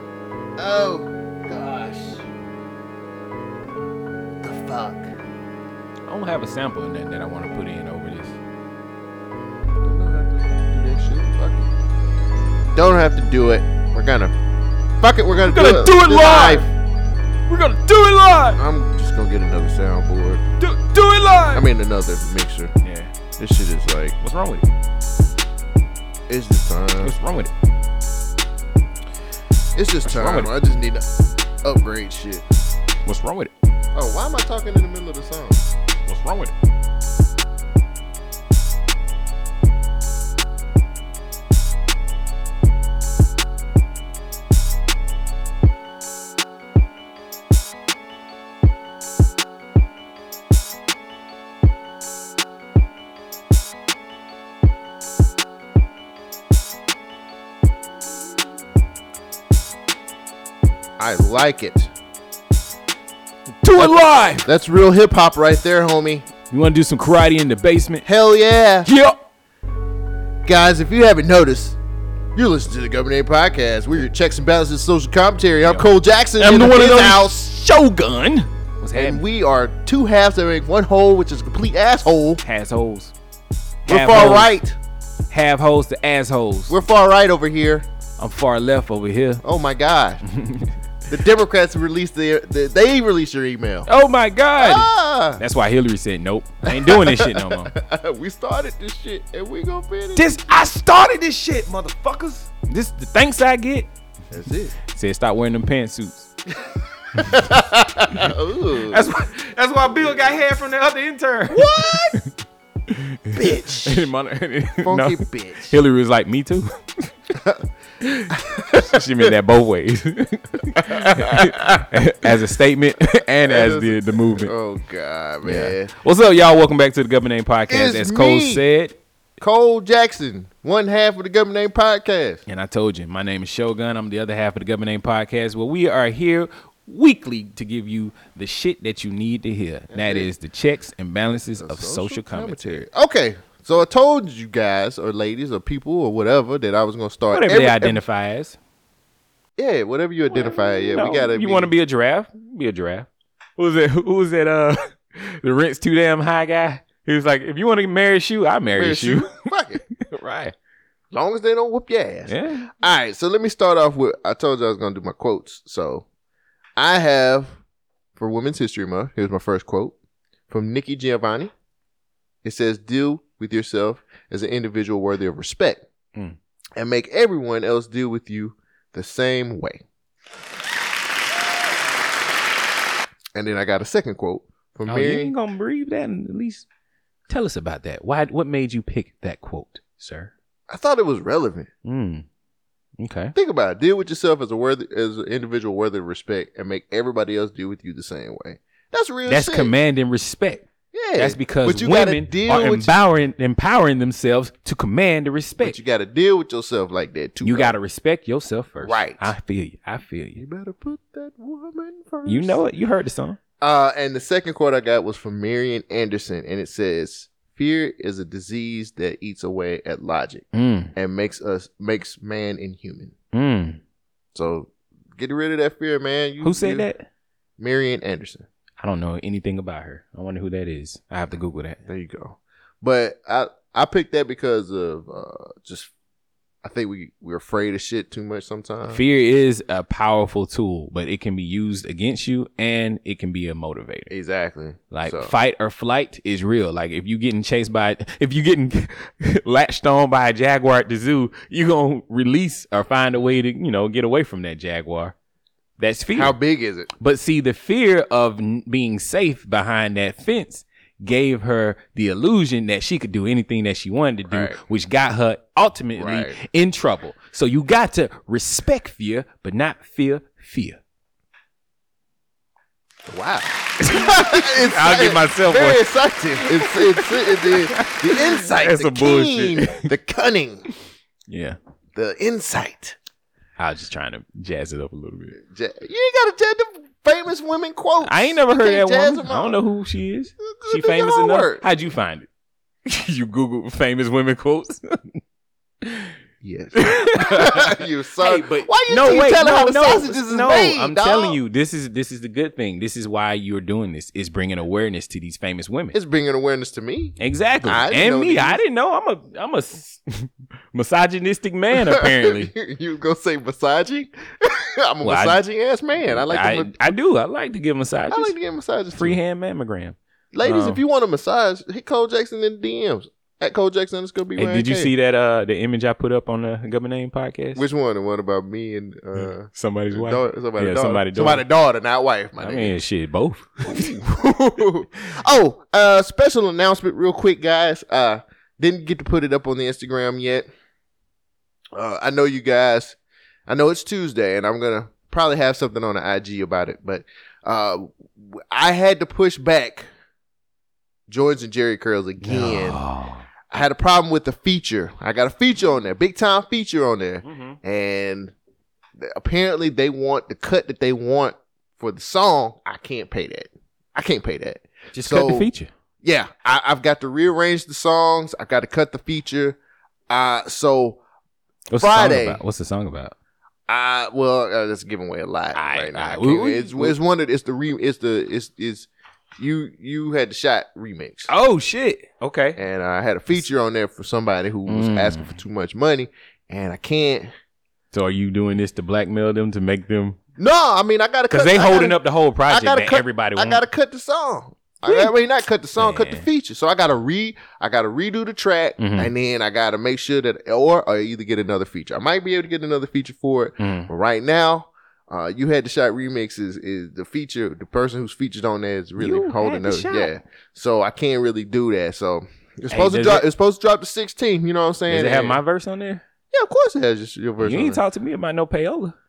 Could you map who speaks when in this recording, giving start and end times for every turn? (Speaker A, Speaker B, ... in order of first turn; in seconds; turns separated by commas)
Speaker A: 0.6-2.2, Speaker A: 4.4-5.1, Speaker B: 6.1-8.4, Speaker A: 9.8-11.7, Speaker A: 12.7-14.3, Speaker A: 15.0-16.7, Speaker B: 15.4-16.7, Speaker B: 17.5-18.6, Speaker A: 18.6-20.4, Speaker B: 20.6-21.6, Speaker A: 21.5-22.7, Speaker B: 22.8-23.1, Speaker A: 23.4-24.2, Speaker B: 24.2-24.7, Speaker A: 26.3-27.1, Speaker B: 27.0-27.5, Speaker A: 29.8-31.1, Speaker B: 30.0-30.5, Speaker A: 31.6-32.5, Speaker B: 33.0-33.5, Speaker A: 33.9-35.7, Speaker B: 36.1-36.5, Speaker A: 61.0-61.9, Speaker B: 63.6-64.5, Speaker A: 63.8-66.3, Speaker B: 66.5-68.1, Speaker A: 68.0-68.9, Speaker B: 68.8-69.2, Speaker A: 70.5-71.8, Speaker A: 72.4-77.4, Speaker B: 75.6-79.2, Speaker A: 78.9-82.4, Speaker B: 82.4-83.1, Speaker A: 83.9-84.8, Speaker B: 83.9-84.5, Speaker B: 85.3-86.8, Speaker A: 86.7-87.9, Speaker B: 88.2-89.4, Speaker A: 89.4-90.2, Speaker B: 90.3-90.7, Speaker A: 91.1-93.9, Speaker B: 93.9-97.7, Speaker A: 94.6-95.4, Speaker A: 96.7-100.3, Speaker B: 100.2-103.9, Speaker A: 104.3-104.8, Speaker B: 104.9-106.3, Speaker A: 107.2-109.1, Speaker B: 108.9-112.3, Speaker A: 111.5-112.2, Speaker B: 112.9-117.1, Speaker A: 113.3-114.1, Speaker A: 114.8-115.8, Speaker A: 117.4-117.6, Speaker B: 118.0-124.5, Speaker A: 118.3-119.3, Speaker A: 120.8-121.5, Speaker A: 123.5-125.9, Speaker B: 125.5-129.0, Speaker A: 127.7-128.7, Speaker A: 129.4-132.4, Speaker B: 132.5-142.9, Speaker A: 139.9-140.3, Speaker A: 141.6-148.0, Speaker B: 147.3-148.6, Speaker A: 149.6-151.7, Speaker B: 150.3-159.4, Speaker A: 158.8-159.8, Speaker B: 160.0-160.6, Speaker A: 161.1-166.1, Speaker B: 162.3-162.7, Speaker A: 166.8-167.6, Speaker A: 168.2-169.9, Speaker A: 170.5-171.5, Speaker A: 172.4-175.8, Speaker A: 176.8-179.8, Speaker A: 183.3-185.3, Speaker B: 184.9-186.7, Speaker B: 187.3-190.3, Speaker A: 190.7-191.7, Speaker B: 191.8-192.2, Speaker B: 193.0-193.3, Speaker A: 193.3-199.7, Speaker B: 199.3-205.8, Speaker A: 200.9-202.9, Speaker A: 205.6-207.8, Speaker B: 207.4-210.4, Speaker A: 208.8-209.2, Speaker A: 210.3-212.6, Speaker B: 212.2-213.4, Speaker A: 213.6-223.1, Speaker B: 220.5-220.9, Speaker B: 223.3-223.8, Speaker A: 224.3-226.9, Speaker B: 226.4-227.1, Speaker A: 227.6-228.5, Speaker B: 228.8-231.8, Speaker A: 231.8-235.9, Speaker A: 236.6-239.0, Speaker B: 238.9-244.1, Speaker A: 244.1-245.3, Speaker B: 244.9-255.2, Speaker B: 255.8-256.4, Speaker A: 256.1-256.9, Speaker B: 257.0-270.8, Speaker A: 264.3-264.6, Speaker A: 266.0-266.4, Speaker A: 273.1-280.7, Speaker B: 273.8-279.9, Speaker B: 281.3-281.6, Speaker A: 281.9-283.0, Speaker B: 283.6-285.4, Speaker A: 285.4-289.6, Speaker B: 288.0-292.3, Speaker A: 290.4-291.6, Speaker B: 292.9-295.2, Speaker B: 295.8-296.1, Speaker A: 296.4-301.4, Speaker B: 296.8-306.0, Speaker A: 305.9-308.6, Speaker B: 307.2-312.5, Speaker A: 311.8-316.9, Speaker B: 315.0-315.4, Speaker B: 316.0-318.4, Speaker A: 318.1-319.2, Speaker B: 318.9-320.8, Speaker A: 320.3-324.9, Speaker B: 324.4-327.6, Speaker A: 327.6-332.8, Speaker B: 329.1-331.4, Speaker B: 332.4-334.0, Speaker A: 333.7-340.5, Speaker A: 341.8-343.0, Speaker A: 343.5-349.9, Speaker A: 351.1-352.8, Speaker B: 352.2-353.2, Speaker A: 353.5-358.3, Speaker B: 357.2-357.6, Speaker A: 359.0-365.5, Speaker B: 364.9-365.7, Speaker A: 366.0-369.6, Speaker A: 370.1-371.0, Speaker B: 371.7-373.1, Speaker A: 371.8-372.4, Speaker A: 373.7-381.3, Speaker B: 375.5-377.0, Speaker B: 381.3-382.6, Speaker A: 382.6-387.3, Speaker B: 384.7-385.4, Speaker B: 387.9-390.2, Speaker A: 390.4-415.4, Speaker B: 391.3-393.6, Speaker B: 394.8-395.1, Speaker B: 395.8-396.3, Speaker B: 398.8-399.1, Speaker B: 403.6-403.9, Speaker B: 409.0-410.1, Speaker B: 412.7-413.3, Speaker B: 414.9-416.0, Speaker A: 416.3-417.8, Speaker B: 417.4-418.9